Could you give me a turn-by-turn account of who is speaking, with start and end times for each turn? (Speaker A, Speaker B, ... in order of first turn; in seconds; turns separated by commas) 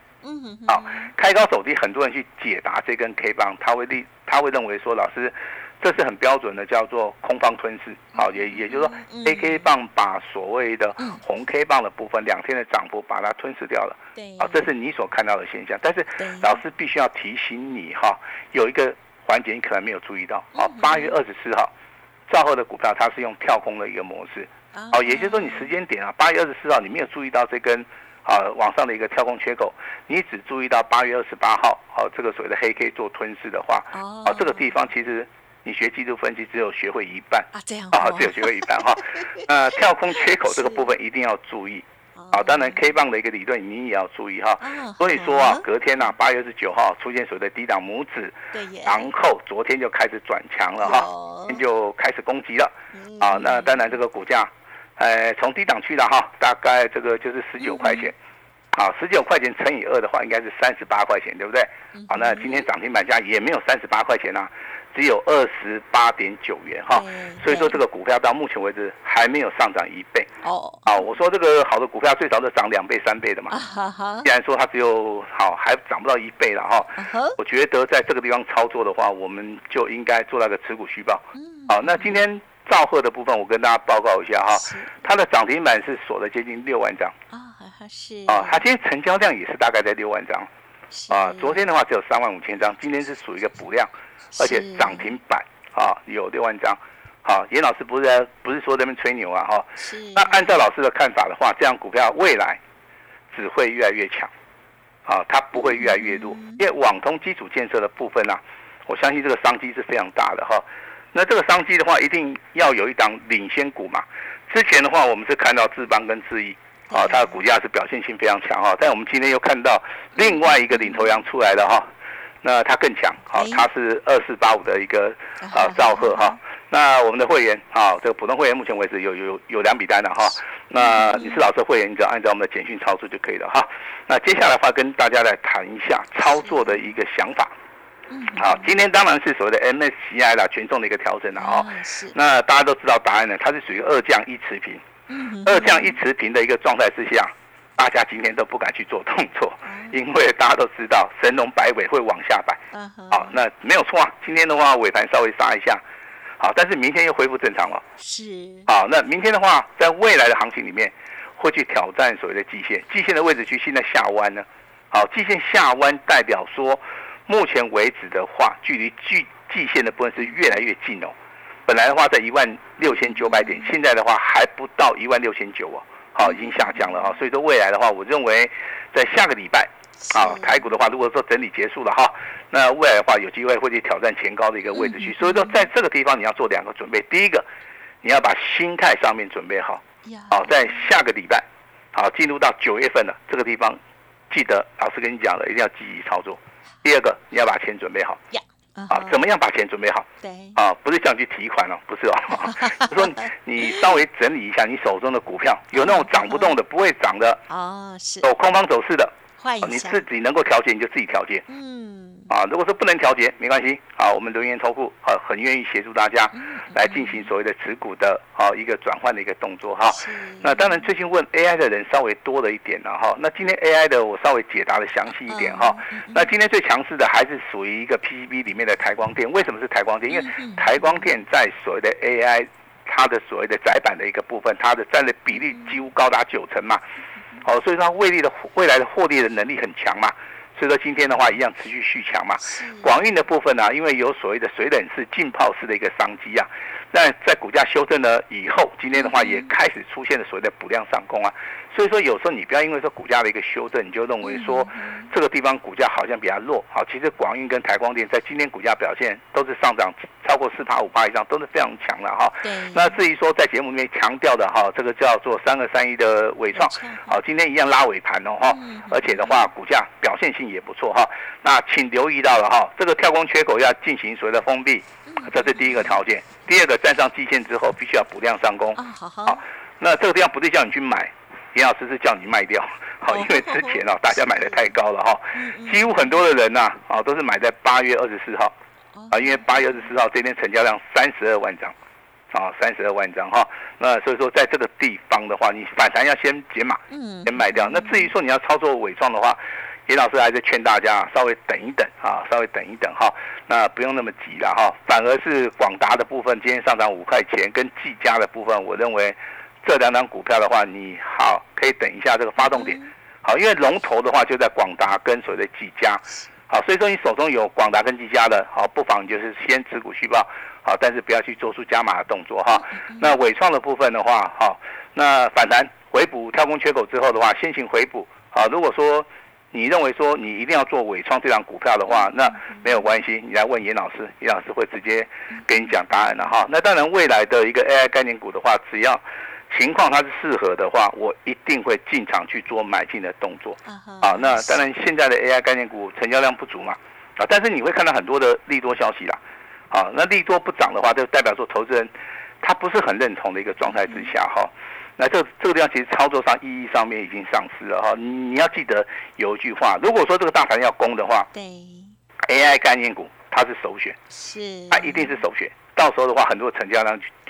Speaker A: 0.2-1.1, Speaker B: 0.7-21.7, Speaker A: 8.1-9.7, Speaker A: 14.1-14.7, Speaker A: 16.2-16.6, Speaker A: 20.5-21.1, Speaker B: 22.3-58.1, Speaker A: 24.7-25.8, Speaker A: 33.9-34.8, Speaker A: 37.5-40.9, Speaker A: 42.1-42.8, Speaker A: 44.6-45.6, Speaker A: 48.5-49.1, Speaker A: 50.8-51.6, Speaker A: 52.9-53.9, Speaker A: 57.6-58.1, Speaker B: 58.7-70.3, Speaker A: 61.9-62.6, Speaker A: 66.9-67.8, Speaker A: 70.4-71.0, Speaker B: 70.8-73.5, Speaker A: 73.5-74.3, Speaker B: 74.2-87.1, Speaker A: 77.0-77.4, Speaker A: 81.3-82.2, Speaker A: 84.5-84.9, Speaker A: 87.3-88.6, Speaker B: 88.3-90.5, Speaker A: 90.9-91.6, Speaker B: 91.1-102.6, Speaker A: 94.3-95.1, Speaker A: 99.8-100.6, Speaker B: 103.3-104.3, Speaker B: 105.0-121.9, Speaker A: 105.6-106.6, Speaker A: 116.9-117.4, Speaker A: 120.2-121.0, Speaker B: 122.4-137.5, Speaker A: 123.3-123.7, Speaker A: 125.4-126.4, Speaker A: 130.8-131.4, Speaker A: 138.1-138.7, Speaker B: 138.4-144.8, Speaker A: 141.3-142.2, Speaker A: 145.1-146.0, Speaker B: 145.4-155.8, Speaker A: 149.6-150.0, Speaker A: 152.7-153.4, Speaker B: 156.4-157.8, Speaker A: 158.0-158.7, Speaker B: 158.7-171.1, Speaker B: 171.7-187.4, Speaker A: 173.2-173.7, Speaker A: 176.2-177.2, Speaker A: 180.0-180.7, Speaker A: 184.7-185.6, Speaker B: 188.0-198.2, Speaker A: 190.0-190.6, Speaker A: 198.3-199.2, Speaker B: 198.9-207.4, Speaker A: 200.2-200.6, Speaker A: 202.3-203.9, Speaker A: 205.7-206.6, Speaker A: 207.5-208.3, Speaker B: 208.2-211.4, Speaker A: 209.4-210.0, Speaker A: 211.5-212.3, Speaker B: 212.3-236.8, Speaker A: 216.3-217.3, Speaker A: 219.9-220.8, Speaker A: 225.2-226.3, Speaker A: 230.1-231.1, Speaker A: 235.4-235.8, Speaker B: 237.4-288.5, Speaker A: 242.4-243.0, Speaker A: 248.9-249.5, Speaker A: 254.2-255.1, Speaker A: 262.4-263.0, Speaker A: 266.5-267.2, Speaker A: 268.4-269.5, Speaker A: 275.1-276.0, Speaker A: 278.8-279.4, Speaker A: 283.1-283.8, Speaker A: 285.3-286.2, Speaker A: 288.9-289.8, Speaker B: 289.1-291.7, Speaker B: 292.3-349.2, Speaker A: 296.9-298.1, Speaker A: 312.4-312.9, Speaker A: 322.5-323.1, Speaker A: 331.9-332.9, Speaker A: 335.3-336.2, Speaker A: 343.6-344.6, Speaker B: 349.7-351.9, Speaker B: 352.4-361.3, Speaker A: 353.8-354.1, Speaker A: 361.3-361.9, Speaker B: 362.2-364.0, Speaker A: 364.1-365.2, Speaker B: 364.7-367.1